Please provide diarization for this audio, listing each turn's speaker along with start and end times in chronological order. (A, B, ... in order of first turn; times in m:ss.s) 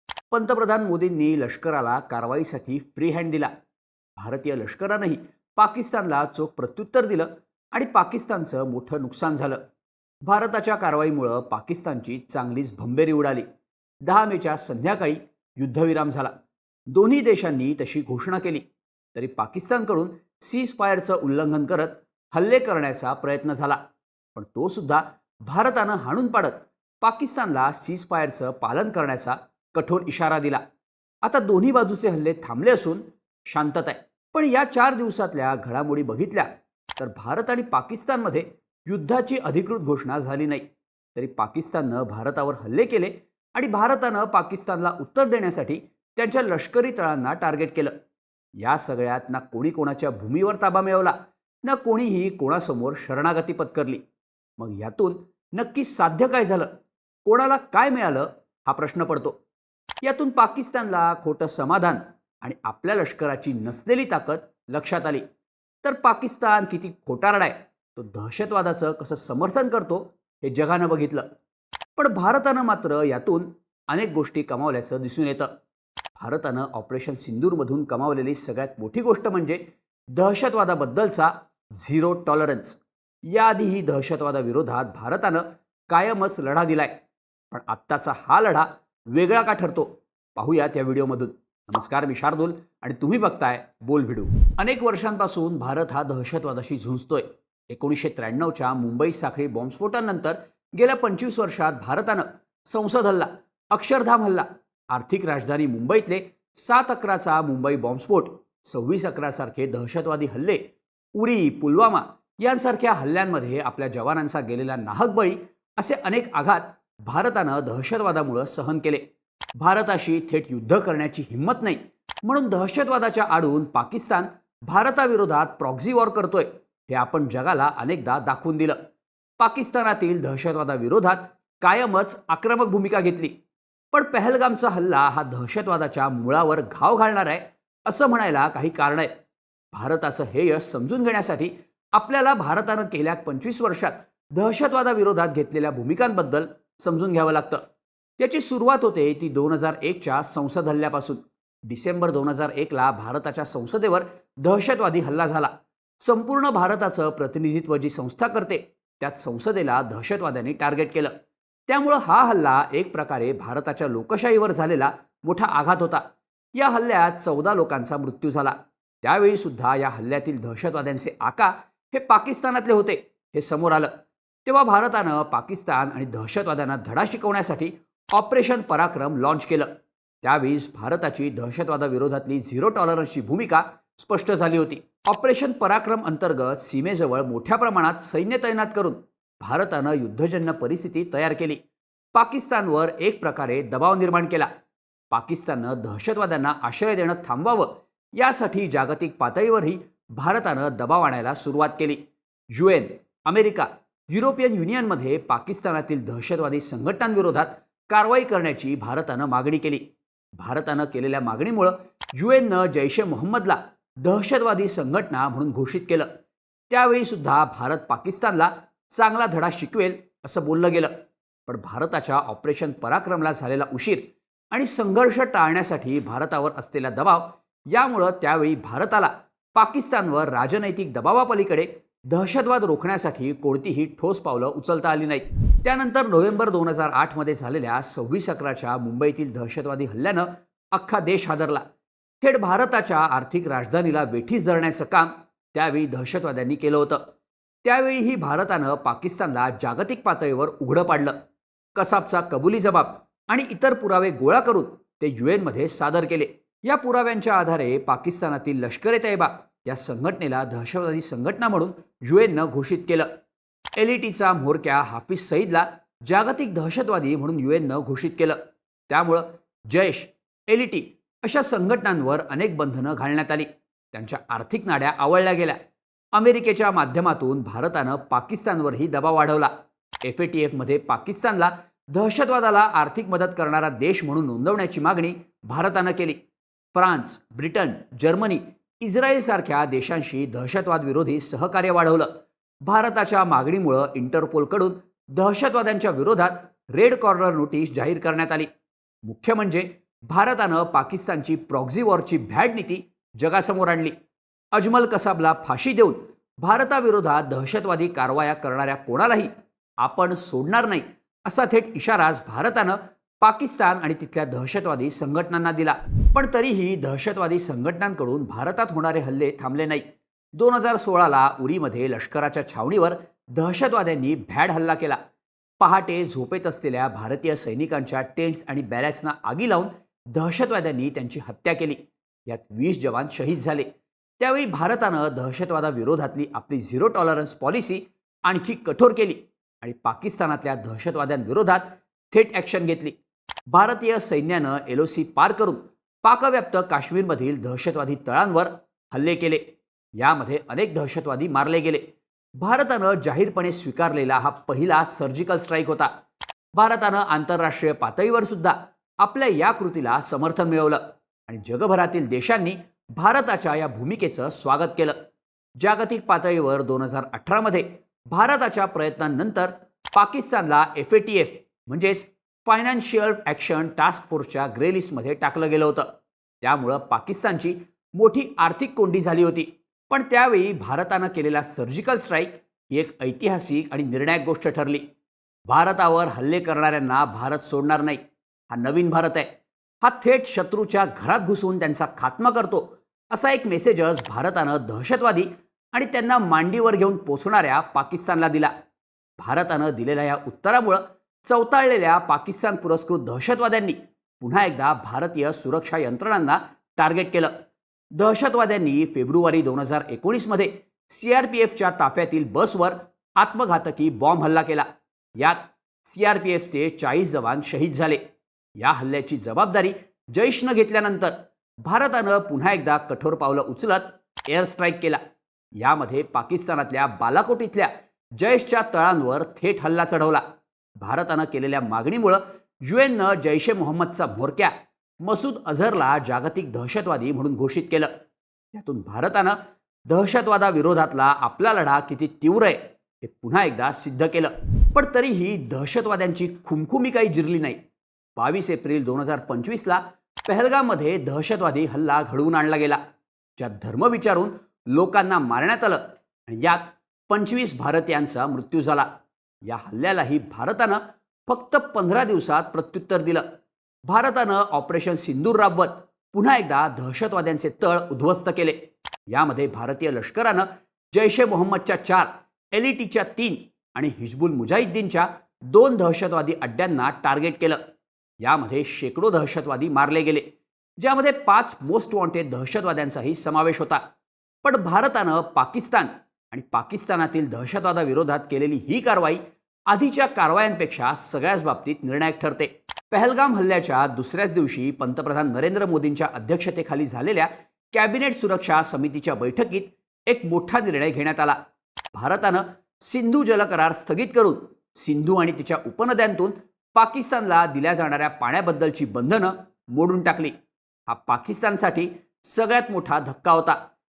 0:00.3-0:03.5 A
0:04.2-0:09.6 A
0:10.2-0:13.4 A
0:14.0-0:16.3 A
0:16.9-0:23.8 A
0:24.3-0:30.6 A
0:31.2-0:40.6 A
0:41.1-0:47.9 A
0:48.6-0:54.0 A
0:54.6-0:56.7 A
0:57.2-0:59.4 A
1:00.0-1:05.2 A
1:05.8-1:11.2 A
1:12.0-1:15.5 A
1:16.2-1:19.6 A
1:20.1-1:26.9 A
1:27.5-1:50.6 A
1:51.1-1:59.0 A
1:59.6-2:08.8 A
2:09.4-2:13.3 A
2:13.9-2:19.1 A
2:19.7-2:27.6 A
2:28.2-2:41.1 A
2:41.7-2:46.0 A
2:46.5-2:53.9 A
2:54.4-2:59.7 A
3:00.2-3:11.6 A
3:12.1-3:14.5 A
3:15.1-3:22.0 A
3:22.5-3:29.8 A
3:30.3-3:36.1 A
3:36.7-3:40.9 A
3:41.5-4:01.6 A
4:02.2-4:07.0 A
4:07.6-4:11.2 A
4:11.8-4:23.1 A
4:23.8-4:28.4 A
4:28.9-4:35.6 A
4:36.1-4:39.5 A
4:40.0-4:46.2 A
4:46.7-4:52.1 A
4:52.6-4:58.5 A
4:59.0-5:03.9 A
5:04.5-5:19.8 A
5:20.3-5:25.0 A
5:25.6-5:33.7 A
5:34.2-5:42.9 A
5:43.5-5:49.4 A
5:50.0-5:51.8 A
5:52.4-5:55.9 A
5:56.5-6:05.0 A
6:05.6-6:15.9 A
6:16.4-6:24.8 A
6:25.5-6:29.3 A
6:29.8-6:38.5 A
6:39.2-6:47.3 A
6:48.0-6:58.0 A
6:58.6-7:05.0 A
7:05.6-7:10.2 A
7:10.8-7:17.9 A
7:18.5-7:27.6 A
7:28.2-7:32.8 A
7:33.4-7:38.9 A
7:39.4-7:43.2 A
7:43.8-7:57.6 A
7:58.2-8:00.3 A
8:00.8-8:03.8 A
8:04.4-8:21.4 A
8:21.9-8:30.3 A
8:30.9-8:33.6 A